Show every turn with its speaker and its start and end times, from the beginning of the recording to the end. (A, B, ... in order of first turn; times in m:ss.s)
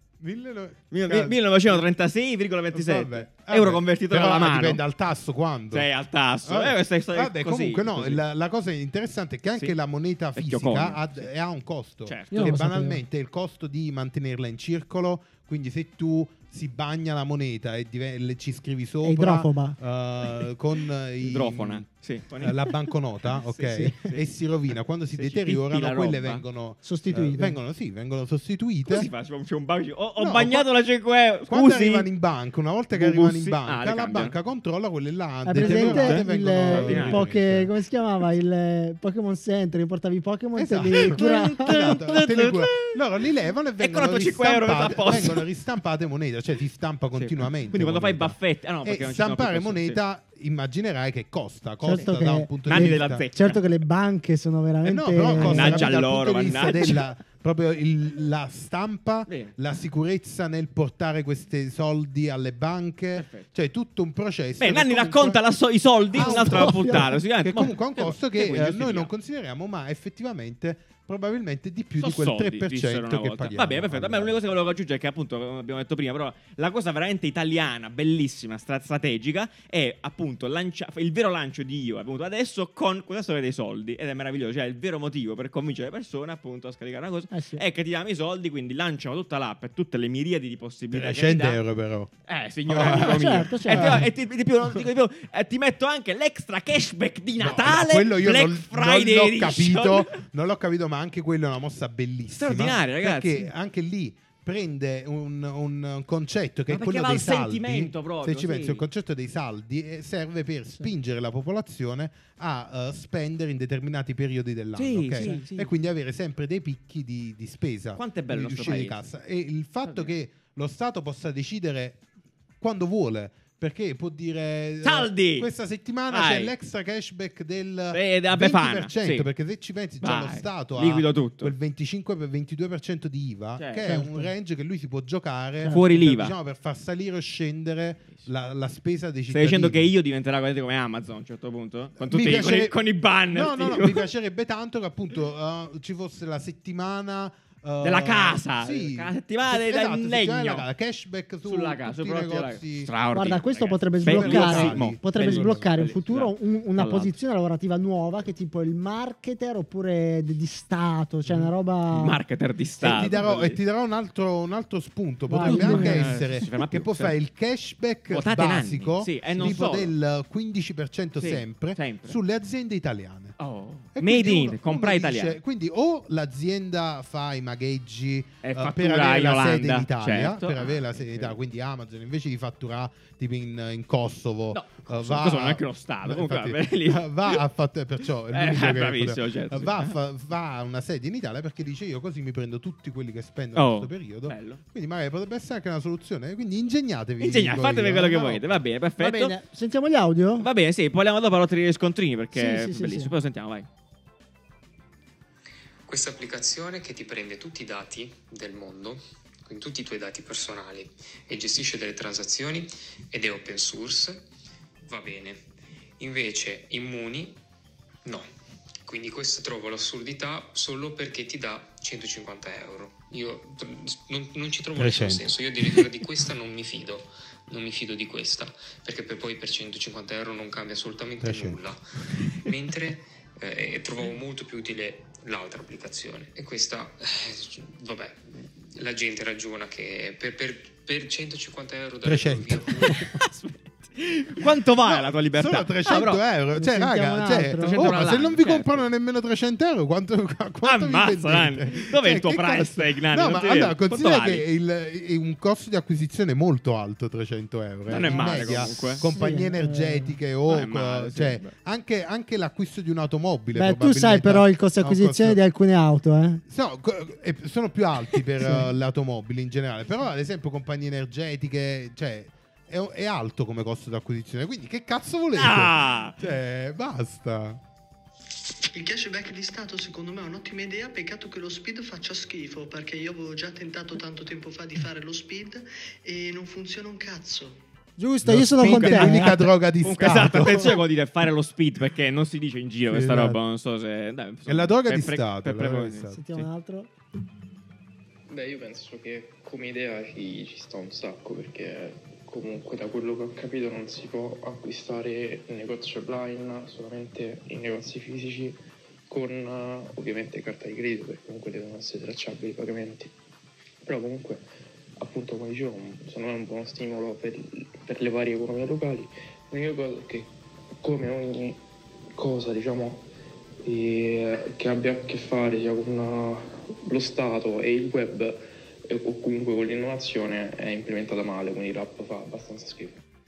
0:00.2-0:01.8 A
0:00.9-0:04.8 B
0:02.7-0:05.9 A
0:05.7-0:08.2 B
0:06.4-0:29.1 A
0:10.3-0:11.3 B
0:12.0-0:12.5 B
0:12.3-0:13.0 C
0:19.0-0:19.8 C
0:21.2-0:24.2 B
0:25.1-0:26.4 B
0:26.8-0:27.6 C
0:28.9-0:32.1 B
0:30.2-0:30.7 A
0:31.5-0:37.7 A
0:32.9-0:34.4 B
0:35.4-0:42.0 C
0:35.5-0:37.2 B
0:40.6-0:53.2 A
0:41.0-0:43.0 B
0:43.8-0:45.4 B
0:47.2-0:50.0 B
0:51.8-0:56.0 C
0:52.6-0:53.6 B
0:54.8-1:05.4 A
0:55.3-0:57.0 B
0:59.3-0:59.5 B
1:03.2-1:03.5 B
1:04.6-1:09.1 B
1:06.1-1:14.4 A
1:06.1-1:07.1 C
1:12.0-1:31.6 B
1:27.3-1:27.6 C
1:30.9-1:32.1 A
1:32.3-1:40.2 B
1:32.7-1:34.1 A
1:32.8-1:34.1 C
1:37.4-2:02.0 A
1:42.3-1:43.5 B
1:46.7-1:48.8 B
1:54.8-1:55.7 B
1:55.2-1:55.5 C
1:58.0-1:59.0 B
1:59.8-2:00.1 B
2:02.6-2:19.9 A
2:04.8-2:05.5 B
2:06.1-2:06.5 B
2:07.9-2:09.3 B
2:10.0-2:11.5 B
2:13.6-2:13.9 B
2:13.8-2:14.2 C
2:15.6-2:16.3 B
2:19.3-2:24.1 B
2:22.0-2:22.8 A
2:23.3-2:32.9 A
2:27.8-2:30.7 B
2:31.4-2:37.2 B
2:33.1-2:42.2 C
2:34.0-2:35.7 A
2:41.3-2:43.6 B
2:42.8-2:53.4 A
2:45.3-2:46.2 C
2:45.4-2:47.2 B
2:48.1-2:49.9 B
2:51.2-2:52.2 B
2:53.4-2:55.4 B
2:53.9-3:18.6 A
2:58.4-3:01.4 B
3:04.5-3:07.4 B
3:08.3-3:10.0 B
3:13.5-3:14.6 B
3:17.2-3:19.4 B
3:19.0-3:20.5 C
3:20.4-3:23.7 B
3:22.3-3:23.1 C
3:25.8-3:34.2 D
3:34.8-3:35.4 D
3:36.0-3:37.4 D
3:38.8-4:03.2 D
3:44.8-3:45.8 A
3:51.2-3:51.6 A
4:02.0-4:03.0 A
4:02.8-4:06.2 B
4:04.8-4:25.4 A
4:06.5-4:07.9 C
4:07.6-4:08.8 B
4:10.6-4:14.4 B
4:17.9-4:19.1 B
4:18.0-4:20.2 C
4:20.5-4:21.5 B
4:23.5-4:26.4 C
4:26.5-4:37.6 A
4:28.4-4:28.7 C
4:35.3-4:36.2 B
4:38.7-4:47.6 E
4:48.0-4:49.4 C
4:48.2-4:50.8 A
4:48.6-4:56.5 B
4:52.9-4:53.4 A
4:54.5-4:56.2 A
4:56.1-4:56.9 C
4:58.3-5:13.1 F
5:13.8-5:14.4 F
5:15.0-5:21.6 F
5:22.1-5:23.1 F
5:23.6-5:33.0 F